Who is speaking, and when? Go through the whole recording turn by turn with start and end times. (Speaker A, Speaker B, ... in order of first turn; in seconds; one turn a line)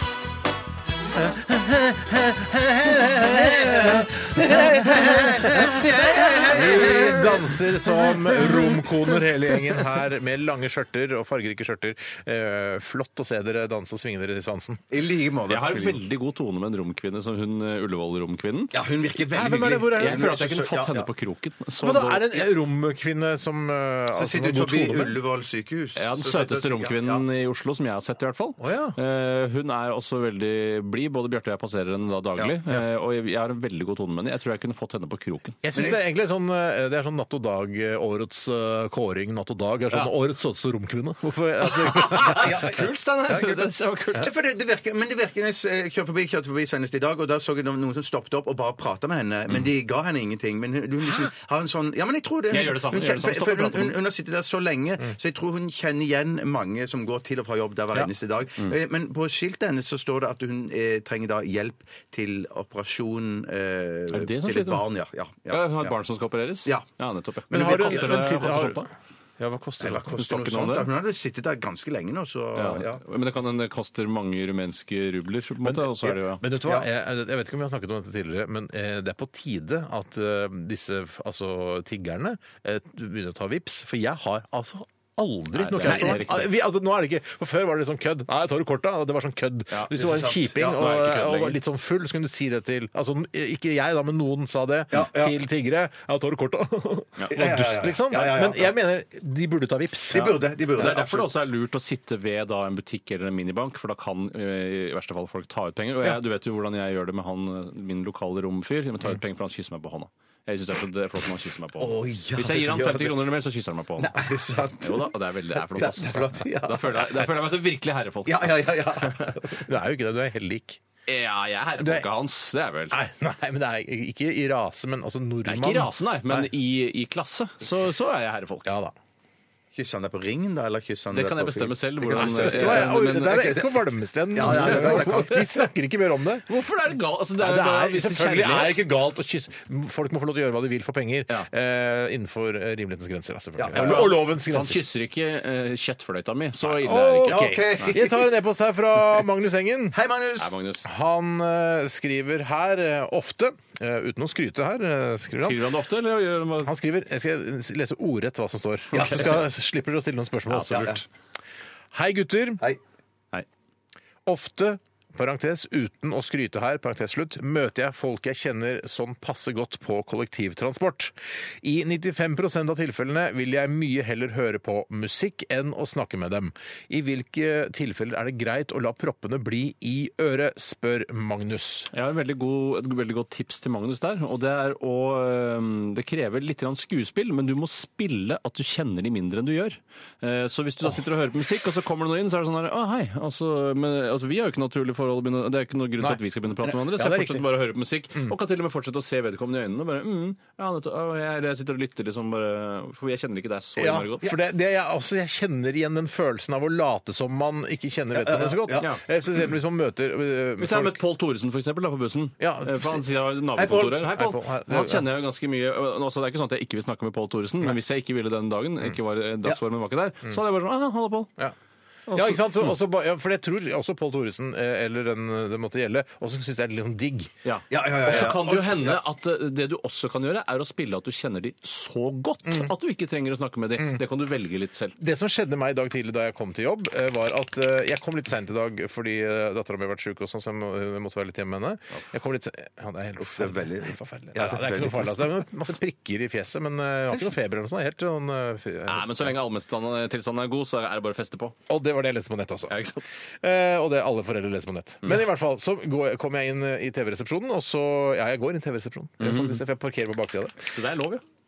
Speaker A: 1.1-14.8
Speaker B: 5.0-7.3
Speaker C: 6.0-7.2
Speaker B: 8.1-8.8
Speaker B: 14.9-16.0
Speaker C: 15.5-18.7
Speaker B: 18.7-21.1
Speaker A: 19.3-20.4
Speaker C: 19.9-22.5
Speaker A: 21.8-25.2
Speaker B: 24.1-27.2
Speaker C: 26.0-35.6
Speaker A: 28.6-29.0
Speaker A: 35.6-42.7
Speaker B: 35.8-36.0
Speaker C: 41.6-44.3
Speaker B: 42.3-42.8
Speaker A: 43.3-43.7
Speaker B: 44.2-65.9
Speaker C: 52.5-54.0
Speaker C: 64.1-64.9
Speaker C: 65.5-68.9
Speaker B: 67.5-68.6
Speaker A: 67.5-68.9
Speaker A: 69.4-70.1
Speaker B: 69.8-73.0
Speaker C: 70.1-70.9
Speaker C: 72.5-76.4
Speaker A: 75.6-100.4
Speaker C: 85.5-86.5
Speaker B: 85.8-86.2
Speaker B: 89.9-91.0
Speaker C: 90.6-91.6
Speaker B: 94.9-95.4
Speaker B: 97.3-98.8
Speaker B: 100.1-101.3
Speaker C: 100.8-114.3
Speaker B: 111.8-113.3
Speaker B: 114.0-117.3
Speaker C: 114.8-119.4
Speaker B: 118.3-119.6
Speaker A: 119.6-120.8
Speaker C: 121.1-123.0
Speaker A: 121.8-122.1
Speaker A: 122.9-126.5
Speaker C: 125.5-128.7
Speaker A: 128.7-128.9
Speaker B: 129.8-135.7
Speaker C: 131.1-133.5
Speaker A: 132.1-136.5
Speaker C: 134.5-135.3
Speaker C: 136.5-138.8
Speaker A: 137.4-144.8
Speaker B: 143.6-144.1
Speaker C: 143.7-147.9
Speaker A: 146.6-150.0
Speaker B: 147.3-148.3
Speaker B: 149.9-150.5
Speaker C: 150.4-150.9
Speaker A: 150.8-155.6
Speaker C: 155.4-156.7
Speaker A: 156.6-161.0
Speaker B: 158.9-159.4
Speaker C: 160.5-161.0
Speaker B: 160.7-161.0
Speaker A: 161.9-162.6
Speaker A: 164.3-181.9
Speaker C: 181.9-204.3
Speaker A: 196.9-197.5
Speaker A: 203.8-211.0
Speaker B: 208.2-208.9
Speaker C: 208.8-209.0
Speaker C: 210.6-221.3
Speaker A: 212.4-213.0
Speaker B: 213.6-214.0
Speaker A: 214.0-215.1
Speaker C: 222.1-222.7
Speaker A: 222.1-227.3
Speaker C: 227.4-235.0
Speaker B: 227.7-229.0
Speaker A: 232.4-232.7
Speaker A: 233.8-234.0
Speaker A: 235.0-249.4
Speaker B: 243.2-245.3
Speaker C: 248.9-251.6
Speaker A: 251.7-252.8
Speaker C: 252.7-253.0
Speaker A: 253.4-260.7
Speaker C: 259.2-259.6
Speaker C: 260.6-261.2